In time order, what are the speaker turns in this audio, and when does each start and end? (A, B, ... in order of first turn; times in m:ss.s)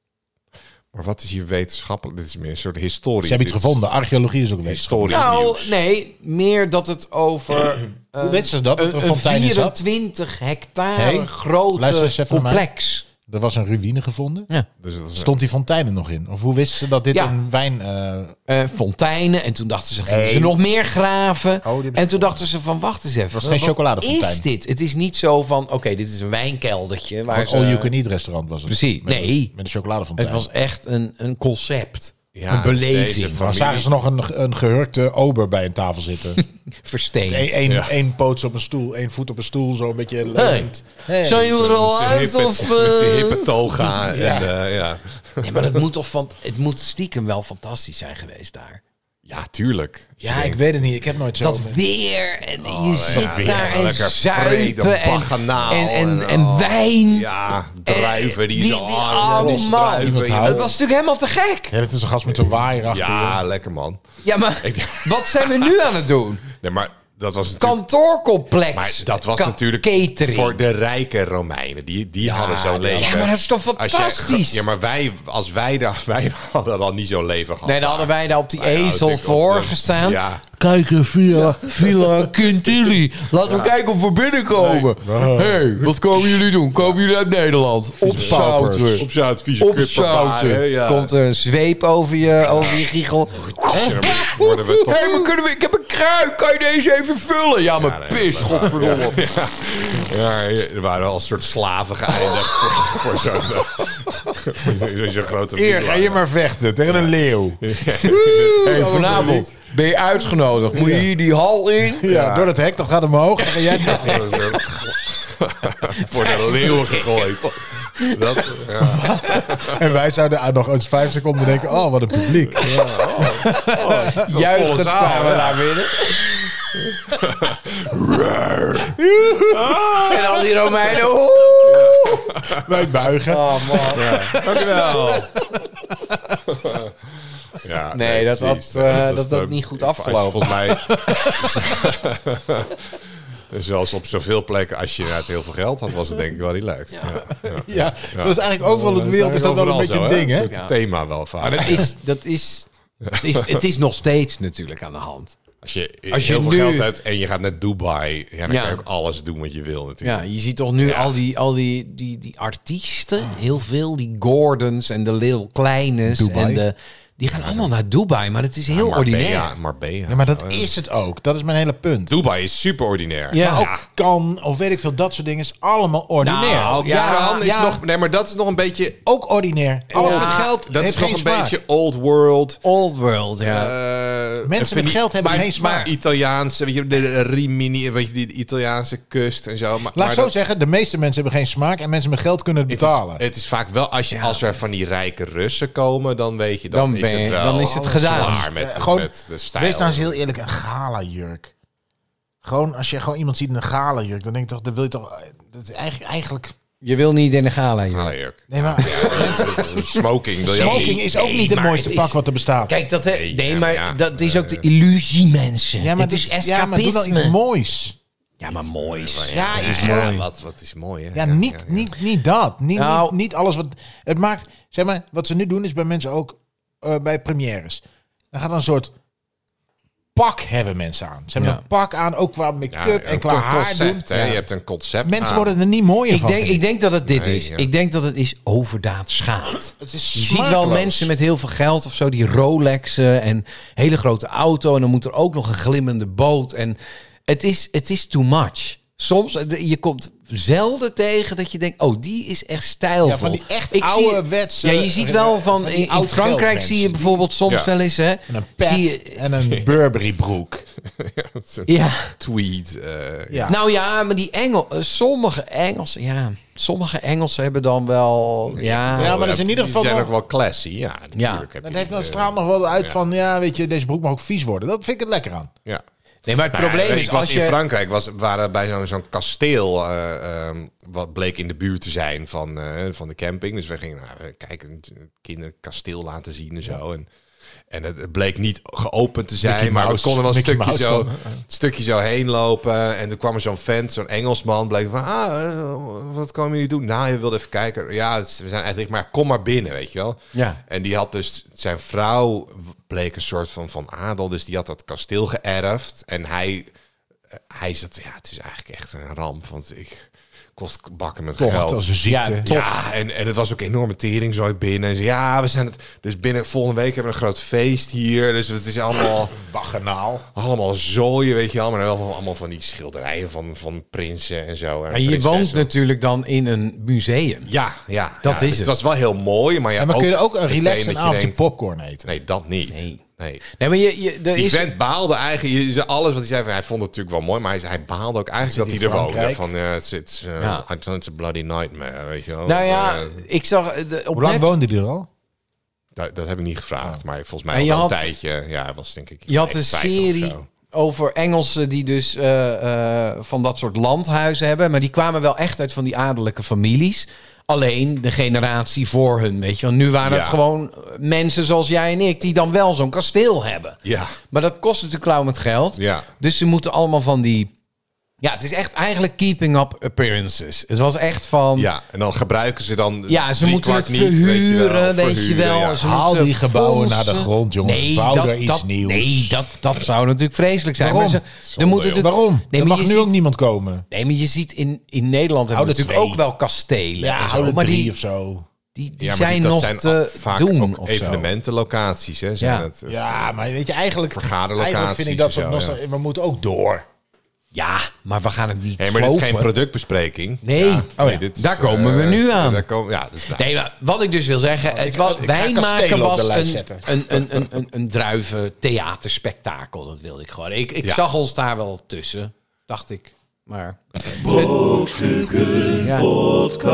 0:00.9-0:03.8 A
0:03.2-0:05.3 B
0:04.6-0:05.7 A
0:05.1-0:13.1 C
0:08.2-0:09.8 B
0:11.0-0:12.7 B
0:13.2-0:14.5 B
0:14.8-0:15.4 A
0:15.2-0:18.4 B
0:18.5-0:27.9 C
0:20.1-0:20.6 B
0:21.6-0:22.4 B
0:23.3-0:24.5 B
0:27.3-0:30.5 B
0:28.7-0:29.5 C
0:30.2-0:33.4 C
0:32.4-0:33.9 A
0:33.4-0:36.4 B
0:36.4-0:37.6 C
0:37.3-0:41.6 B
0:37.7-0:38.0 A
0:40.4-0:40.7 C
0:41.2-0:44.5 C
0:41.4-0:45.8 A
0:44.1-0:44.5 B
0:45.4-0:48.8 C
0:49.3-0:50.6 A
0:50.2-0:51.8 B
0:51.4-1:01.8 C
0:52.6-1:00.8 A
0:53.1-0:53.8 B
0:59.3-1:00.7 B
1:01.7-1:03.4 B
1:02.9-1:04.0 A
1:04.2-1:06.4 C
1:04.6-1:05.8 A
1:06.5-1:07.8 A
1:07.6-1:10.6 C
1:08.7-1:20.4 A
1:12.2-1:14.6 C
1:17.6-1:29.1 C
1:21.5-1:22.1 A
1:23.4-1:23.7 A
1:24.6-1:24.9 A
1:25.0-1:25.6 B
1:28.0-1:29.1 B
1:28.2-1:31.1 A
1:29.6-1:39.3 C
1:32.4-1:32.8 A
1:33.4-1:35.3 A
1:37.8-1:46.2 A
1:45.5-1:49.5 B
1:46.9-1:49.4 A
1:48.6-1:52.2 C
1:50.7-1:51.1 B
1:51.9-1:54.6 B
1:52.1-1:52.5 A
1:53.4-1:54.8 C
1:53.9-1:59.8 A
1:55.9-1:57.3 C
1:58.0-1:58.5 C
1:58.8-2:04.2 B
1:59.1-1:59.5 C
2:02.6-2:05.8 A
2:02.6-2:03.3 C
2:04.1-2:06.5 C
2:06.7-2:09.0 A
2:08.8-2:10.4 B
2:09.5-2:10.2 A
2:10.0-2:12.3 C
2:11.6-2:12.9 A
2:12.4-2:15.3 B
2:13.3-2:15.2 C
2:13.9-2:15.3 A
2:16.6-2:16.9 A
2:17.5-2:31.9 A
2:17.9-2:20.6 C
2:20.7-2:21.7 B
2:27.4-2:30.5 B
2:31.4-2:35.4 C
2:33.0-2:33.6 A
2:35.6-2:40.3 A
2:36.1-2:36.9 C
2:38.5-2:38.8 C
2:40.0-2:49.5 C
2:40.8-2:41.2 A
2:46.1-2:46.6 B
2:47.3-2:47.7 A
2:48.7-2:50.7 A
2:50.1-2:52.2 B
2:52.1-2:53.8 A
2:53.3-2:53.7 C
2:53.4-2:57.8 B
2:56.2-2:57.4 C
2:56.4-2:59.0 A
2:59.0-3:01.6 B
2:59.9-3:00.5 C
2:59.9-3:02.6 A
3:02.6-3:03.7 C
3:03.4-3:10.3 A
3:04.4-3:05.9 B
3:05.2-3:05.9 C
3:09.9-3:13.2 B
3:12.7-3:20.2 A
3:14.1-3:14.4 C
3:16.7-3:18.5 C
3:17.5-3:21.5 B
3:22.4-3:26.6 B
3:26.8-3:28.1 C
3:27.9-3:31.0 A
3:28.5-3:29.7 B
3:28.8-3:37.4 C
3:30.4-3:32.8 B
3:33.1-3:34.6 A
3:35.8-3:38.0 B
3:38.4-3:40.3 C
3:38.5-3:41.9 A
3:39.3-3:40.2 B
3:41.2-3:48.9 B
3:42.8-3:43.1 C
3:50.2-3:54.4 B
3:52.7-3:55.5 A
3:55.0-3:56.6 B
3:56.1-4:19.2 C
3:57.1-3:57.7 A
3:59.8-4:01.1 B
4:13.0-4:17.3 B
4:18.3-4:20.6 B
4:20.8-4:23.6 A
4:21.7-4:22.2 C
4:23.3-4:23.6 B
4:23.5-4:29.2 C
4:28.5-4:32.9 A
4:29.0-4:30.1 B
4:31.2-4:31.5 C
4:31.6-4:35.5 B
4:36.3-4:37.6 C
4:36.5-4:47.1 A
4:47.7-5:06.7 A
4:49.4-4:51.2 B
5:00.3-5:00.6 C
5:07.5-5:11.9 A
5:11.4-5:12.5 B
5:12.1-5:12.8 C
5:12.4-5:19.4 A
5:19.3-5:20.2 B
5:20.4-5:25.7 A
5:24.9-5:27.5 C
5:27.5-5:31.4 A
5:28.2-5:28.7 C
5:29.8-5:32.1 B
5:32.0-5:33.4 A
5:32.7-5:34.7 C
5:34.3-5:43.2 A
5:38.4-5:39.4 B
5:42.5-5:44.5 C
5:44.2-5:45.1 B
5:46.0-5:50.4 A
5:47.5-5:48.1 C
5:49.3-6:03.8 C
6:00.0-6:00.4 A
6:03.8-6:04.2 A
6:04.3-6:07.5 C
6:05.8-6:06.1 A
6:08.2-6:11.7 C
6:11.6-6:15.8 A
6:13.1-6:23.1 C
6:15.8-6:19.4 B
6:20.8-6:21.2 B
6:21.4-6:22.1 A
6:21.9-6:23.9 B
6:23.9-6:27.9 C
6:25.5-6:26.2 B
6:27.0-6:28.5 B
6:28.8-6:31.3 C
6:29.0-6:33.3 A
6:32.4-6:32.7 C
6:32.9-6:36.9 B
6:34.1-6:35.8 A
6:37.5-6:39.5 C
6:38.8-6:43.5 A
6:40.4-6:42.7 C
6:41.0-6:41.2 B
6:43.3-6:56.3 C
6:44.6-6:47.4 B